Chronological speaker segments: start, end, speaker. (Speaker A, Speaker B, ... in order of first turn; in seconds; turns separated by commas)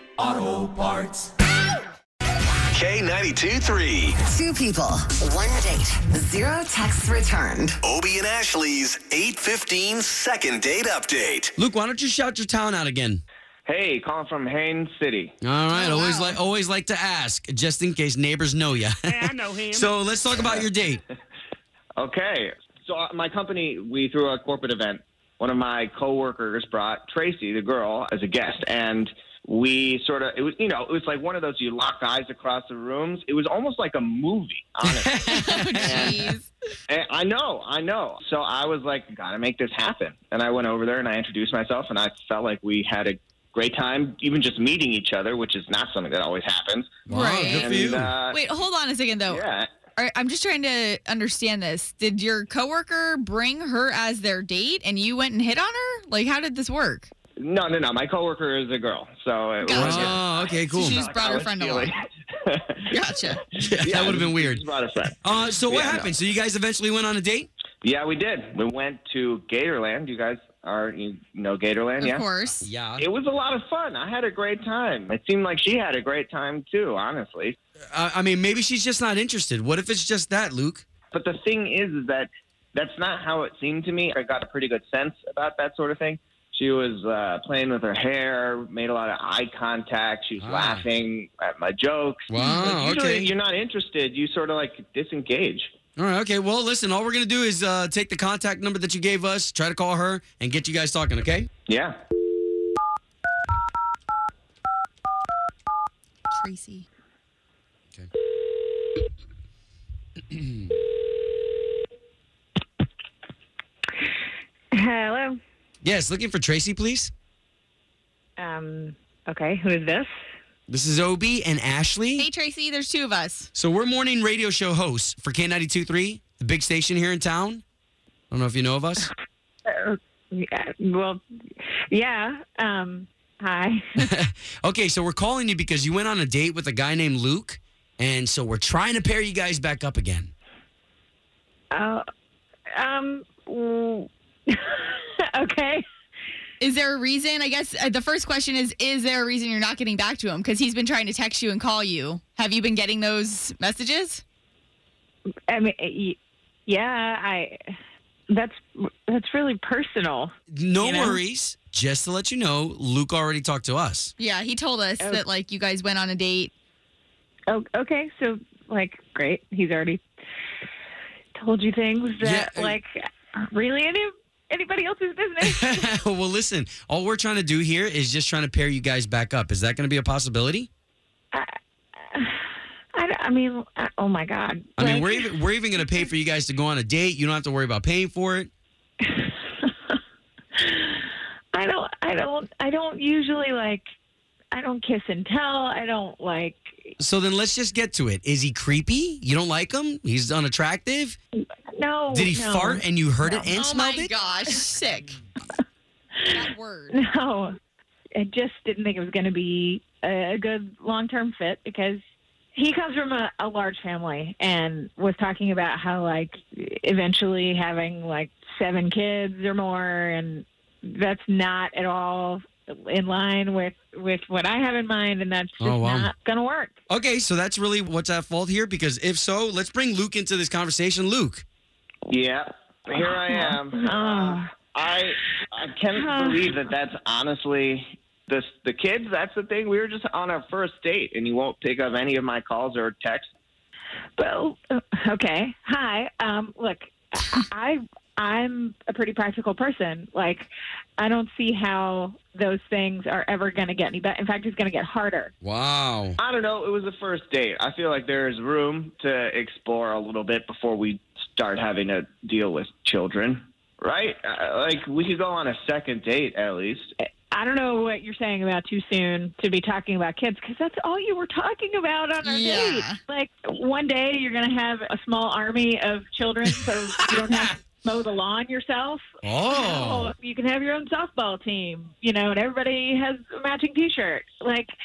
Speaker A: 0.2-1.3, Speaker B: 2.7-4.2, Speaker C: 4.2-7.8, Speaker B: 7.8-11.5, Speaker A: 11.6-13.2, Speaker D: 13.7-15.3, Speaker A: 15.4-21.0, Speaker E: 15.7-16.4, Speaker D: 20.3-20.7, Speaker D: 21.9-36.3, Speaker A: 34.9-36.1, Speaker E: 35.3-36.5, Speaker D: 36.9-48.4, Speaker A: 47.1-48.1, Speaker E: 47.1-57.1, Speaker D: 49.3-49.7, Speaker D: 57.4-62.8, Speaker E: 59.6-61.9, Speaker A: 59.7-61.0, Speaker E: 62.9-63.5, Speaker A: 63.5-64.6, Speaker D: 63.7-65.1, Speaker A: 65.2-67.5, Speaker D: 65.7-66.2, Speaker D: 67.8-72.3, Speaker E: 72.0-72.7, Speaker A: 72.6-73.0, Speaker D: 72.9-77.5, Speaker A: 77.9-80.8, Speaker D: 81.1-95.7, Speaker A: 90.4-90.9, Speaker A: 92.3-93.3, Speaker E: 92.4-92.7, Speaker A: 96.0-101.5, Speaker D: 101.7-101.9, Speaker E: 106.3-106.8, Speaker F: 114.7-115.4, Speaker A: 115.8-117.1, Speaker F: 118.4-120.1, Speaker A: 120.7-122.2, Speaker E: 122.2-123.5, Speaker A: 123.5-127.6, Speaker A: 128.3-129.1, Speaker F: 129.7-133.8, Speaker A: 134.0-140.3, Speaker F: 141.7-142.0, Speaker F: 142.7-145.8, Speaker E: 146.6-154.2, Speaker F: 155.5-157.6, Speaker F: 158.3-161.2, Speaker A: 160.5-164.1, Speaker E: 164.2-166.5, Speaker F: 167.5-170.0, Speaker F: 171.3-175.8, Speaker A: 172.2-172.8, Speaker A: 175.4-180.7, Speaker F: 181.3-182.4, Speaker F: 182.9-186.0, Speaker A: 184.8-188.5, Speaker F: 189.0-189.7, Speaker F: 190.6-193.8, Speaker F: 194.5-196.9, Speaker A: 197.0-201.2, Speaker F: 201.4-203.5, Speaker A: 202.1-204.1, Speaker E: 203.5-205.2, Speaker E: 206.3-207.0, Speaker F: 206.9-207.5, Speaker F: 208.1-212.0, Speaker F: 212.5-226.7, Speaker A: 225.6-226.1, Speaker A: 226.9-231.4, Speaker D: 232.1-243.3, Speaker F: 233.0-234.5, Speaker F: 235.9-236.5, Speaker F: 244.2-255.3, Speaker A: 255.4-256.2, Speaker D: 256.2-266.9, Speaker F: 267.3-284.7, Speaker E: 272.2-273.0, Speaker A: 279.2-280.1